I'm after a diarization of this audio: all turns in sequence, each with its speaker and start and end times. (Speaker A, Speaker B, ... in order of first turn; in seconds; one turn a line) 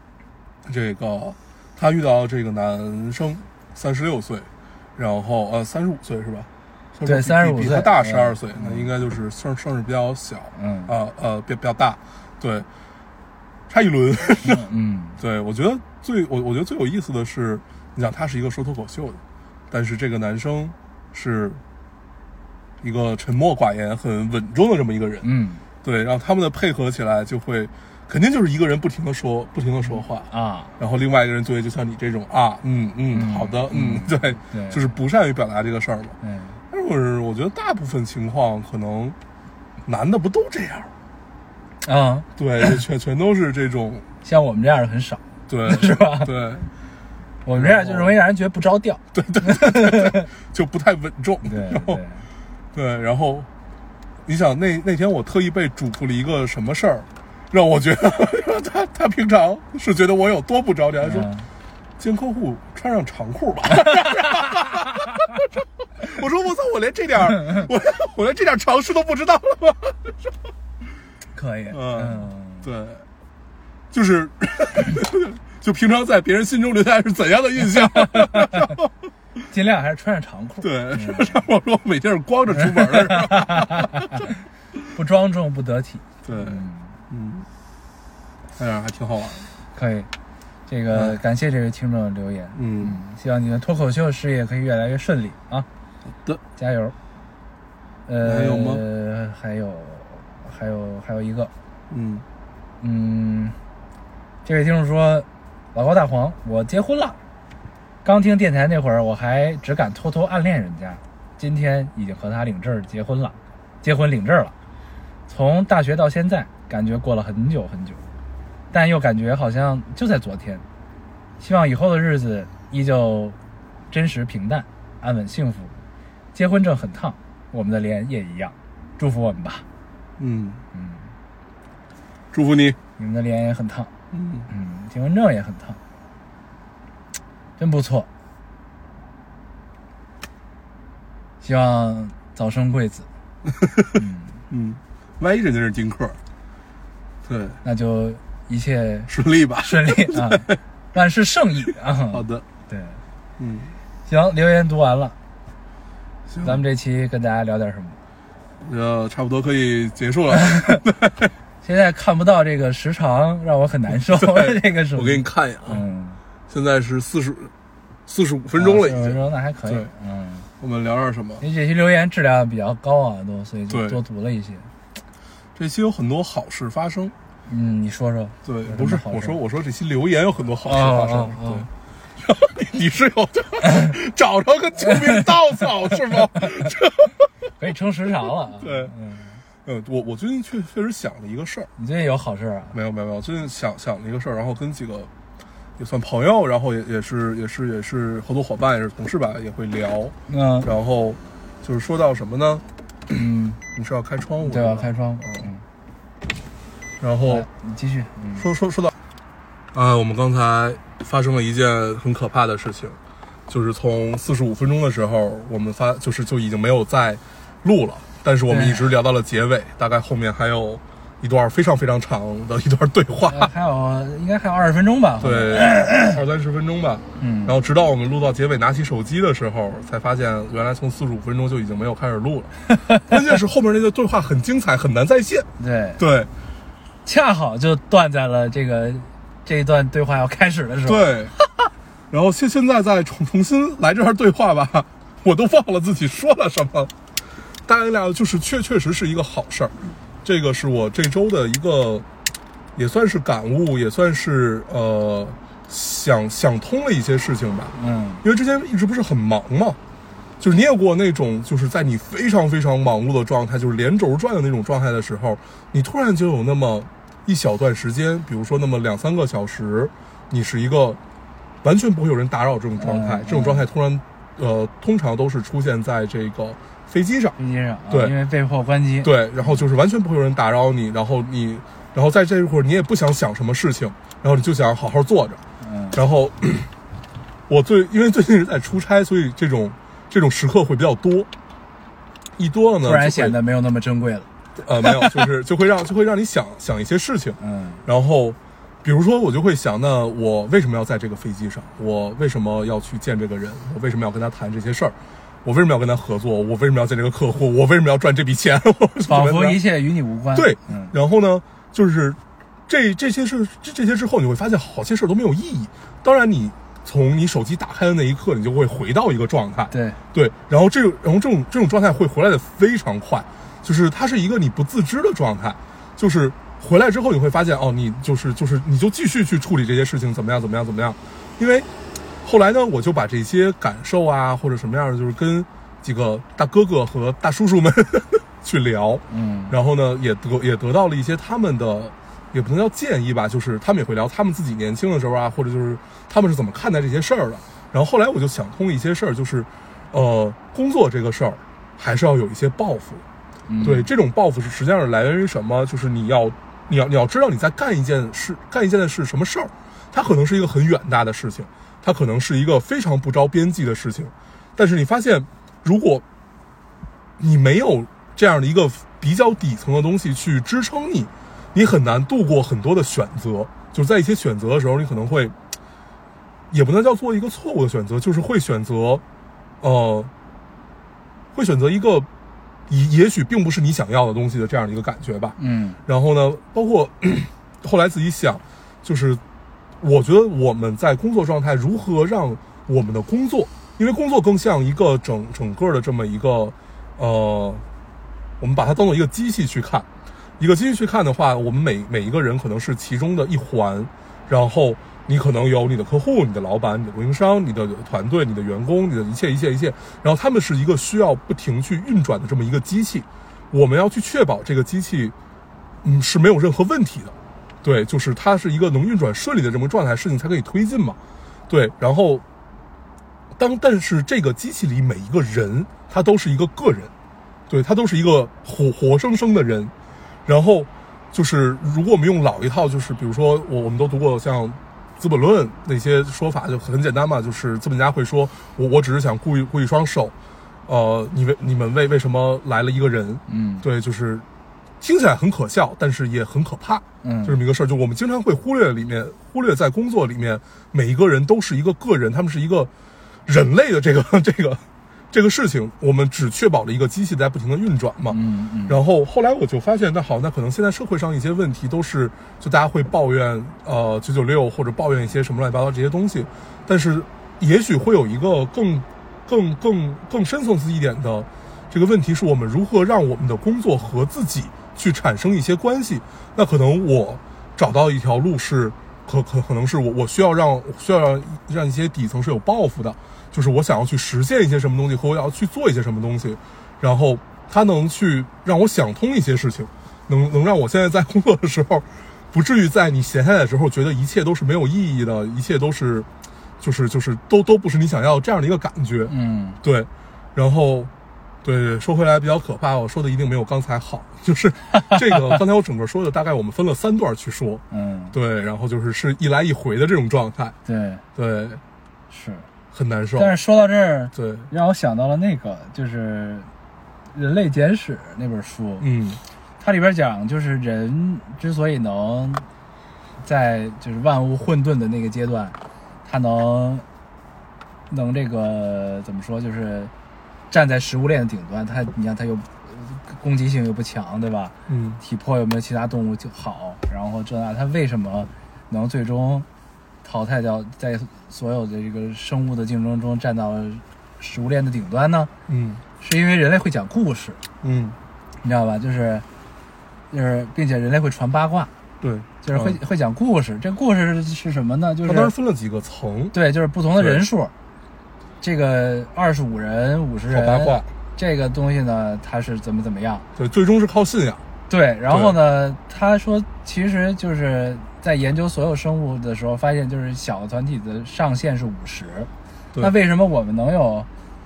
Speaker A: 0.7-12.7
Speaker B: 7.0-8.9
Speaker B: 10.6-10.9
Speaker A: 13.7-14.7
Speaker B: 14.4-15.2
Speaker A: 15.2-21.6
Speaker A: 22.8-25.3
Speaker B: 25.2-25.6
Speaker A: 25.8-36.2
Speaker B: 30.3-30.7
Speaker B: 33.1-34.8
Speaker B: 36.2-36.6
Speaker A: 36.7-39.2
Speaker A: 39.9-40.9
Speaker B: 41.8-42.3
Speaker A: 42.4-44.1
Speaker B: 44.2-46.3
Speaker A: 45.5-46.7
Speaker B: 47.4-50.3
Speaker A: 47.5-48.1
Speaker A: 49.1-52.0
Speaker B: 51.5-52.2
Speaker A: 52.7-53.5
Speaker A: 54.3-61.3
Speaker B: 61.0-61.5
Speaker A: 62.0-65.3
Speaker B: 64.0-64.7
Speaker A: 66.0-70.2
Speaker B: 71.3-72.7
Speaker A: 71.7-73.0
Speaker A: 73.9-78.9
Speaker B: 77.9-78.8
Speaker B: 79.5-81.4
Speaker A: 80.6-84.3
Speaker B: 82.5-84.3
Speaker B: 85.0-86.9
Speaker A: 86.2-87.5
Speaker A: 88.6-89.5
Speaker B: 89.8-90.1
Speaker B: 90.7-95.7
Speaker A: 90.9-91.2
Speaker A: 92.6-93.0
Speaker B: 96.6-97.0
Speaker B: 98.1-101.5
Speaker A: 98.2-98.8
Speaker A: 101.9-102.2
Speaker B: 102.8-103.6
Speaker B: 104.5-107.2
Speaker B: 108.0-114.5
Speaker B: 115.3-118.0
Speaker B: 118.7-120.6
Speaker B: 121.4-123.4
Speaker B: 123.9-125.7
Speaker B: 126.3-129.7
Speaker A: 130.2-130.6
Speaker B: 130.7-131.1
Speaker A: 132.3-132.8
Speaker B: 133.0-133.9
Speaker A: 134.1-134.5
Speaker B: 134.5-135.8
Speaker B: 137.6-138.1
Speaker B: 141.4-143.1
Speaker A: 143.6-144.0
Speaker B: 144.0-144.4
Speaker A: 144.5-146.2
Speaker A: 147.2-147.6
Speaker B: 147.6-153.0
Speaker A: 149.1-150.6
Speaker A: 152.1-152.4
Speaker A: 153.4-153.8
Speaker B: 154.1-155.2
Speaker A: 156.3-156.6
Speaker B: 156.4-158.0
Speaker A: 158.6-161.3
Speaker B: 160.5-160.8
Speaker B: 161.6-166.2
Speaker A: 163.9-165.8
Speaker A: 166.5-167.5
Speaker A: 168.1-169.9
Speaker B: 168.6-170.5
Speaker A: 170.6-171.4
Speaker B: 171.4-174.7
Speaker A: 173.7-174.0
Speaker A: 175.6-177.2
Speaker B: 177.5-179.4
Speaker A: 178.4-187.2
Speaker B: 180.7-181.7
Speaker B: 187.6-189.4
Speaker A: 188.6-188.9
Speaker A: 189.7-191.7
Speaker B: 191.8-192.8
Speaker A: 192.7-195.1
Speaker A: 195.8-202.6
Speaker B: 200.3-200.7
Speaker B: 203.1-203.6
Speaker A: 203.8-205.5
Speaker B: 204.4-205.6
Speaker A: 207.0-207.5
Speaker B: 207.2-208.5
Speaker A: 208.4-208.9
Speaker A: 209.7-223.5
Speaker B: 218.5-218.9
Speaker B: 223.3-226.2
Speaker A: 225.2-236.3
Speaker B: 227.2-227.5
Speaker B: 235.6-236.0
Speaker B: 237.1-241.2
Speaker A: 240.9-241.3
Speaker A: 242.1-246.9
Speaker A: 247.7-252.1
Speaker A: 252.8-259.8
Speaker B: 257.8-258.2
Speaker A: 260.4-271.0
Speaker A: 271.6-277.4
Speaker B: 272.8-273.7
Speaker B: 277.4-279.1
Speaker A: 277.9-278.1
Speaker A: 279.0-285.4
Speaker B: 285.6-286.0
Speaker A: 285.9-286.7
Speaker A: 287.5-291.3
Speaker A: 292.4-293.4
Speaker B: 292.8-294.3
Speaker A: 294.6-309.6
Speaker B: 294.8-295.2
Speaker B: 297.4-297.8
Speaker B: 309.1-310.9
Speaker A: 310.3-331.7
Speaker B: 319.7-320.0
Speaker A: 332.2-353.0
Speaker B: 339.1-339.6
Speaker B: 353.5-353.9
Speaker A: 353.6-366.0
Speaker A: 367.2-375.4
Speaker A: 376.5-379.0
Speaker A: 379.6-380.1
Speaker A: 381.3-382.1
Speaker A: 382.7-389.2
Speaker B: 385.4-385.8
Speaker A: 389.8-397.6
Speaker A: 398.4-399.9
Speaker A: 400.4-415.1
Speaker A: 415.8-421.0
Speaker A: 421.5-422.2
Speaker A: 423.4-426.9
Speaker A: 427.5-429.7
Speaker A: 430.3-440.1
Speaker A: 440.7-444.2
Speaker B: 443.3-443.7
Speaker A: 444.8-452.7
Speaker B: 447.0-447.4
Speaker A: 453.3-496.1
Speaker B: 458.1-458.8
Speaker A: 496.6-500.9
Speaker B: 499.1-499.6
Speaker A: 501.4-510.6
Speaker B: 504.8-505.2
Speaker B: 507.7-508.1
Speaker B: 510.7-511.0
Speaker A: 511.2-511.6
Speaker B: 512.1-512.5
Speaker A: 512.7-513.3
Speaker B: 513.2-516.5
Speaker A: 514.1-514.5
Speaker B: 517.1-518.9
Speaker A: 518.8-519.2
Speaker B: 519.6-522.5
Speaker B: 523.2-526.9
Speaker B: 527.9-529.9
Speaker B: 530.5-539.5
Speaker A: 534.7-535.0
Speaker B: 540.0-545.3
Speaker A: 545.5-545.8
Speaker B: 546.0-547.4
Speaker A: 547.6-548.0
Speaker B: 548.4-549.2
Speaker B: 550.1-551.7
Speaker A: 552.0-552.8
Speaker B: 552.4-555.3
Speaker A: 555.0-556.4
Speaker B: 556.3-557.5
Speaker A: 557.0-557.2
Speaker B: 558.4-563.3
Speaker A: 560.3-560.9
Speaker A: 563.4-564.4
Speaker B: 564.7-574.1
Speaker A: 565.1-565.4